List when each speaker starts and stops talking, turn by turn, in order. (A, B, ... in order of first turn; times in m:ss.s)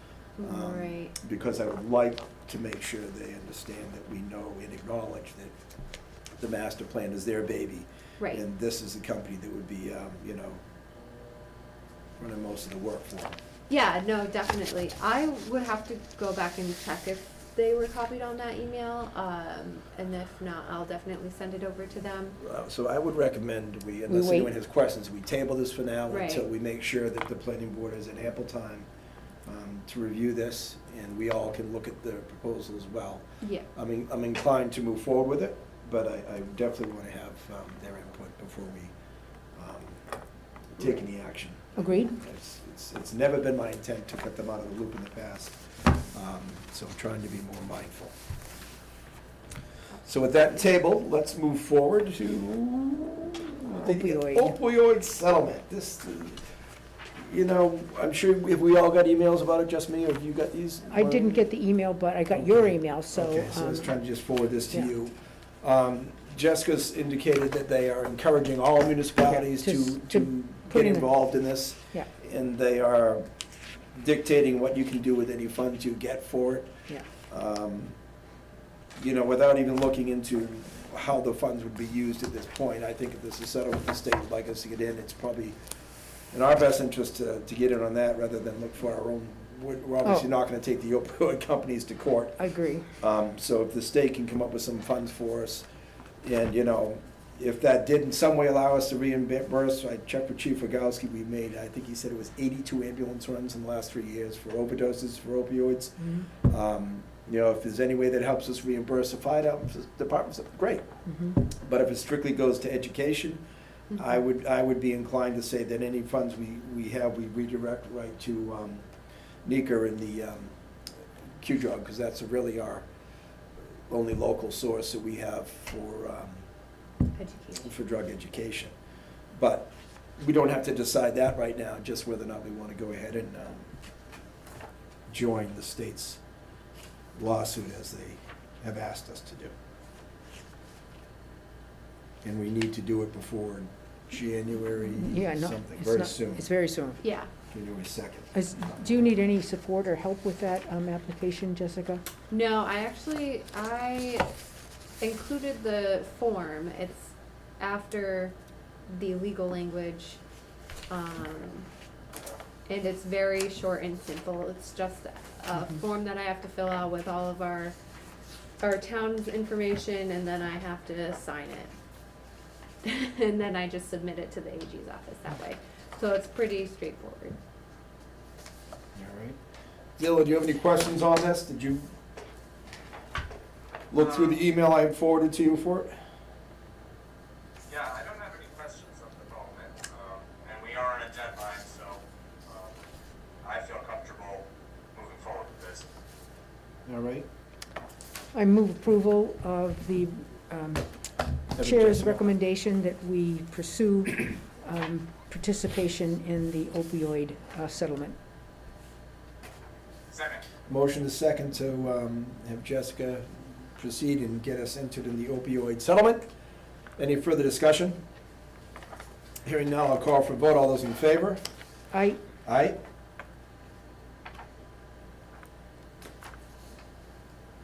0:00.4-0:01.2 A
0:00.4-0:05.5 B
0:06.4-0:10.6 B
0:12.2-0:13.4 B
0:13.7-0:22.4 A
0:22.4-0:28.9 B
0:26.1-0:26.4 A
0:29.4-0:33.2 B
0:33.7-0:38.9 B
0:39.6-0:40.0 B
0:40.8-0:48.1 B
0:50.0-0:56.4 B
0:57.2-1:01.4 B
1:01.0-1:03.9 C
1:02.3-1:13.2 B
1:09.6-1:11.0 C
1:13.9-1:16.7 B
1:17.3-1:17.9 B
1:19.0-1:25.6 B
1:26.3-1:35.7 B
1:36.2-1:53.4 B
1:53.9-1:58.8 B
1:59.4-2:00.5 B
2:01.4-2:02.8 B
2:03.9-2:06.4 B
2:07.1-2:07.8 A
2:07.6-2:08.7 B
2:09.3-2:13.7 B
2:15.1-2:16.2 B
2:17.2-2:19.5 B
2:22.2-2:26.4 B
2:26.0-2:27.0 C
2:27.0-2:27.3 A
2:27.5-2:28.9 B
2:28.3-2:32.0 C
2:32.3-2:34.3 A
2:35.0-2:38.3 A
2:38.9-2:40.2 A
2:40.9-2:41.7 A
2:42.7-2:47.8 A
2:48.6-2:51.7 A
2:52.8-2:57.4 A
2:58.9-2:59.4 B
3:00.0-3:01.9 B
3:03.9-3:05.9 B
3:04.0-3:04.4 D
3:07.7-3:12.8 D
3:13.4-3:15.9 D
3:16.8-3:17.3 B
3:18.3-3:20.8 C
3:21.6-3:22.3 B
3:21.6-3:28.2 C
3:30.1-3:30.4 D
3:30.7-3:36.2 B
3:37.0-3:38.0 B
3:39.4-3:41.4 B
3:41.9-3:42.2 C
3:42.4-3:42.8 B